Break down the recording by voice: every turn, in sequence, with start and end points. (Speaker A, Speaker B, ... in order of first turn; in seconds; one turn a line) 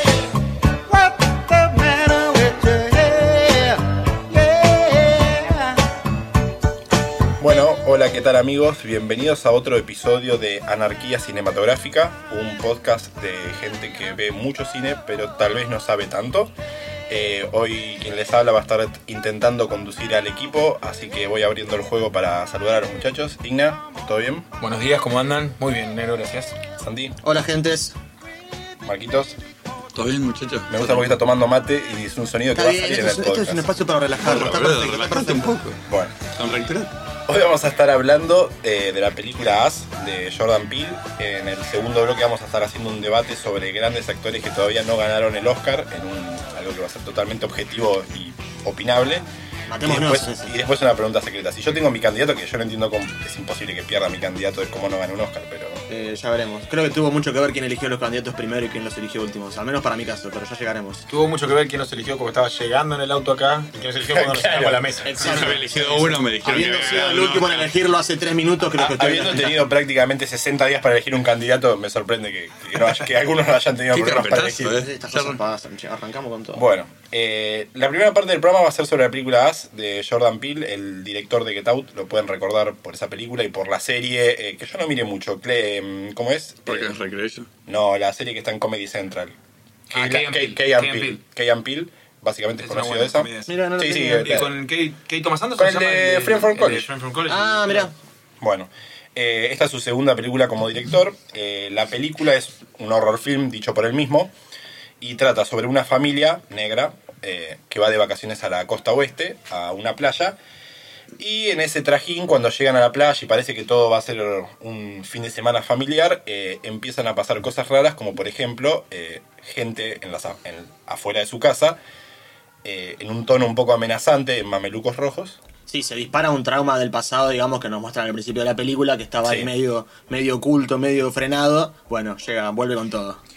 Speaker A: 0.9-5.7
Speaker B: 7.4-16.5
Speaker B: 17.1-24.5
Speaker C: 24.6-26.6
Speaker B: 26.8-27.2
Speaker A: 27.2-27.9
Speaker B: 28.9-29.4
Speaker D: 29.9-31.2
Speaker B: 30.7-33.7
Speaker A: 32.5-35.6
Speaker D: 34.2-36.9
Speaker B: 35.9-36.2
Speaker B: 37.3-49.2
Speaker A: 49.7-50.5
Speaker B: 49.8-55.8
Speaker A: 55.9-61.1
Speaker C: 61.1-67.7
Speaker B: 64.1-64.8
Speaker A: 65.0-69.6
Speaker D: 65.3-67.6
Speaker B: 68.8-74.8
Speaker D: 73.9-75.4
Speaker A: 74.7-76.6
Speaker B: 76.5-87.0
Speaker D: 86.7-87.5
Speaker B: 87.7-89.3
Speaker B: 89.9-94.5
Speaker C: 89.9-91.2
Speaker C: 92.6-97.9
Speaker A: 93.5-94.4
Speaker B: 95.6-96.9
Speaker A: 97.3-97.9
Speaker B: 98.4-104.3
Speaker B: 105.0-110.4
Speaker B: 111.2-121.8
Speaker B: 122.6-125.4
Speaker A: 125.7-133.2
Speaker B: 129.2-129.5